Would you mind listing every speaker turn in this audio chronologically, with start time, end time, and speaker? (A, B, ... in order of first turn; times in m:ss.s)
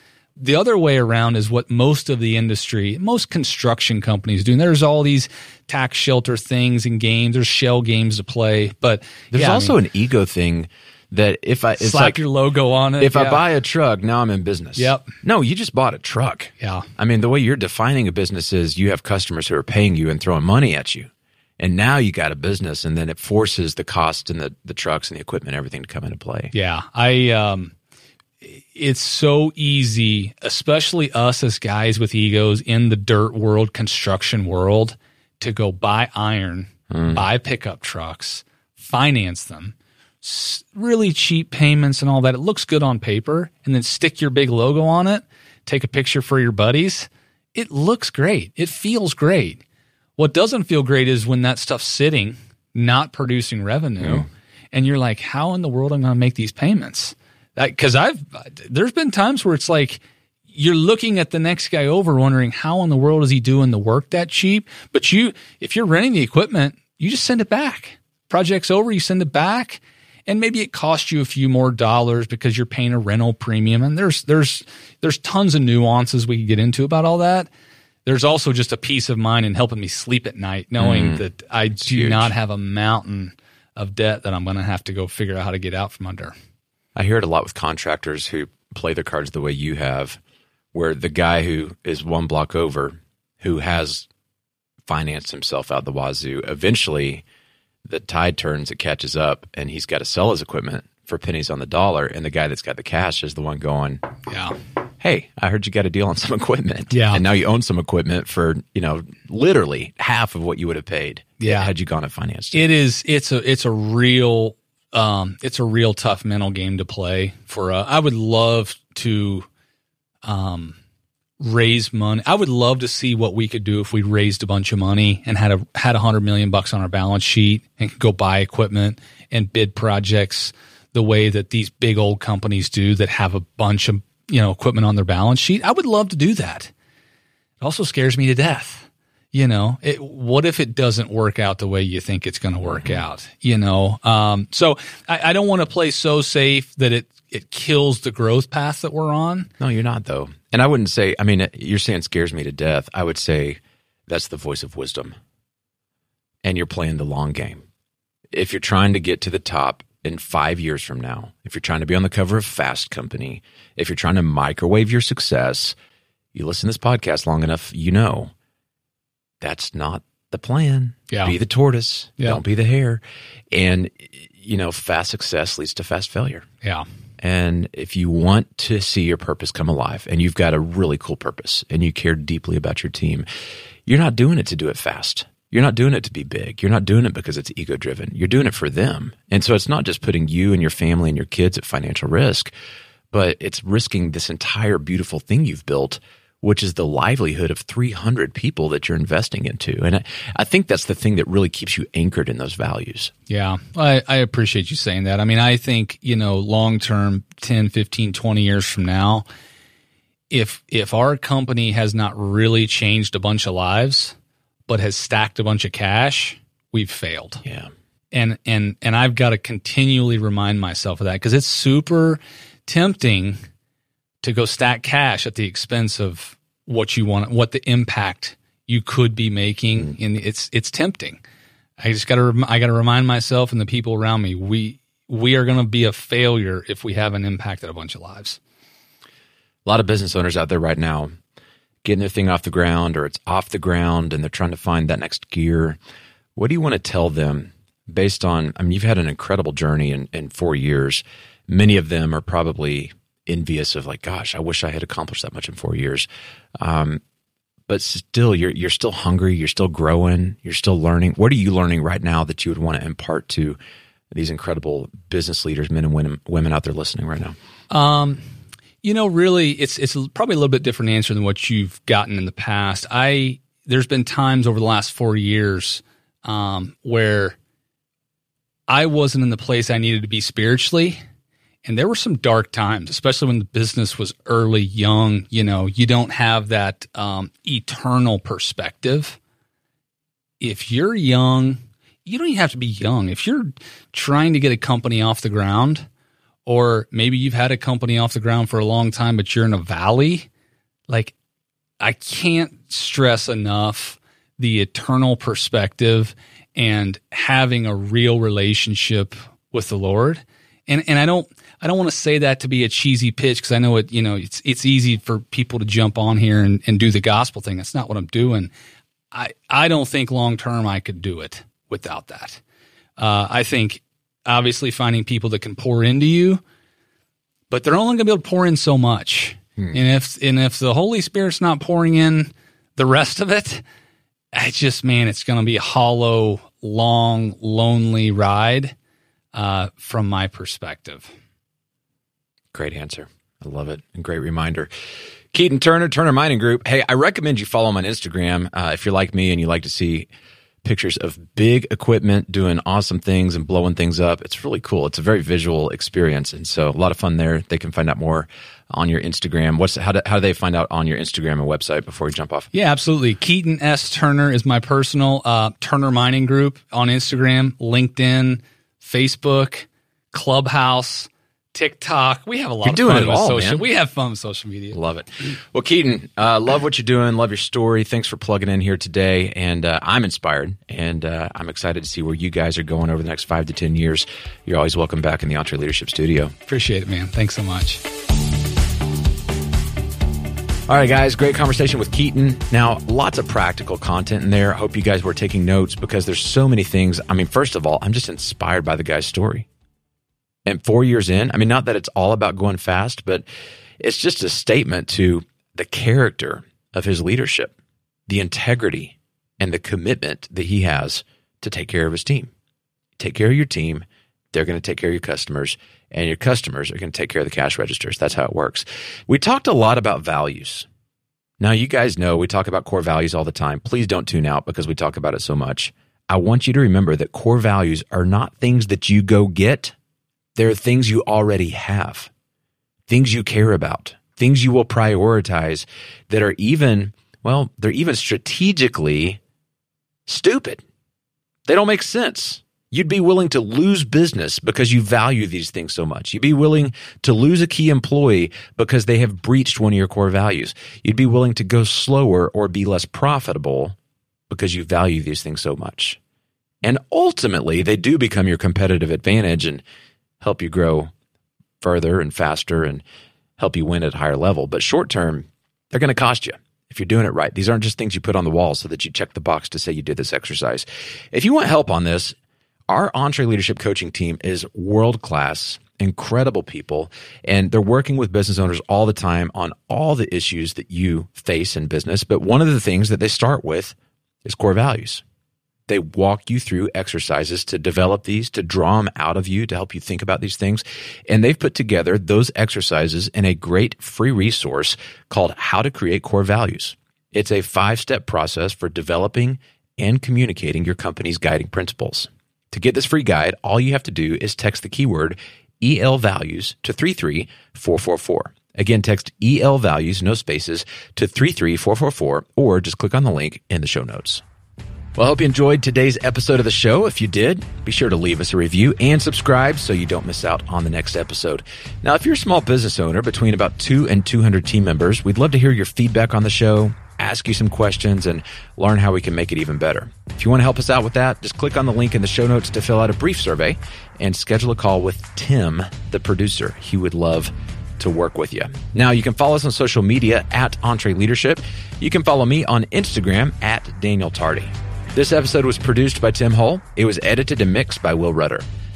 0:00.4-0:09.8 A
0:09.3-0:12.2 B
0:11.8-0:13.4 A
0:13.0-0:26.5 B
0:14.8-0:15.1 A
0:16.6-0:16.9 A
0:26.5-0:27.8 A
0:28.4-0:49.6 A
0:36.9-0:37.2 B
0:50.2-1:17.5 A
0:54.0-0:54.3 B
1:18.0-1:26.3 A
1:20.8-1:21.2 B
1:21.8-1:22.3 B
1:27.0-1:30.2 B
1:30.7-1:34.1 B
1:34.9-1:37.2 B
1:37.9-1:44.0 B
1:44.3-1:44.6 A
1:45.0-1:52.7 B
1:46.9-1:47.2 A
1:51.4-1:51.7 A
1:52.5-1:59.5 A
2:00.2-2:00.8 A
2:01.4-2:16.7 A
2:17.6-2:29.5 A
2:22.7-2:23.0 B
2:29.6-2:35.2 B
2:36.4-2:37.6 B
2:38.3-2:45.8 B
2:46.3-2:48.3 B
2:49.4-2:56.5 B
2:51.1-2:51.4 A
2:57.2-3:03.3 B
3:03.9-3:12.5 B
3:13.1-3:23.1 B
3:23.3-3:29.2 A
3:30.3-3:34.2 A
3:34.7-3:37.4 A
3:37.4-3:37.7 B
3:38.1-3:43.4 A
3:44.2-3:51.2 A
3:51.8-3:58.4 A
3:59.6-4:01.2 B
4:01.8-4:05.8 B
4:06.4-4:16.1 B
4:16.6-4:17.0 B
4:17.7-4:23.6 B
4:24.1-4:27.4 B
4:27.7-4:28.2 A
4:28.8-4:37.4 A
4:38.7-4:41.0 A
4:41.6-4:49.2 A
4:50.4-4:55.9 A
4:56.5-5:00.3 A
5:00.9-5:01.1 A
5:01.8-5:18.5 A
5:19.1-5:22.4 A
5:23.0-5:26.4 A
5:27.5-5:33.6 A
5:34.3-5:38.8 A
5:39.3-5:41.1 A
5:42.5-5:44.7 B
5:45.3-5:50.1 B
5:50.6-6:02.5 B
6:02.5-6:14.8 A
6:12.6-6:13.7 B
6:14.7-6:26.3 B
6:26.5-6:27.8 A
6:30.7-6:39.5 B
6:40.5-6:43.2 B
6:43.8-6:47.5 B
6:48.1-6:52.3 B
6:53.0-7:00.7 B
7:01.4-7:09.8 B
7:10.4-7:12.1 B
7:12.9-7:19.2 B
7:20.1-7:20.6 B
7:21.5-7:33.8 B
7:34.3-7:36.0 B
7:36.6-7:39.6 B
7:40.2-7:40.9 B
7:41.6-7:42.8 B
7:43.4-7:52.2 B
7:52.7-8:05.0 B
8:05.7-8:34.2 B
8:35.0-9:08.5 B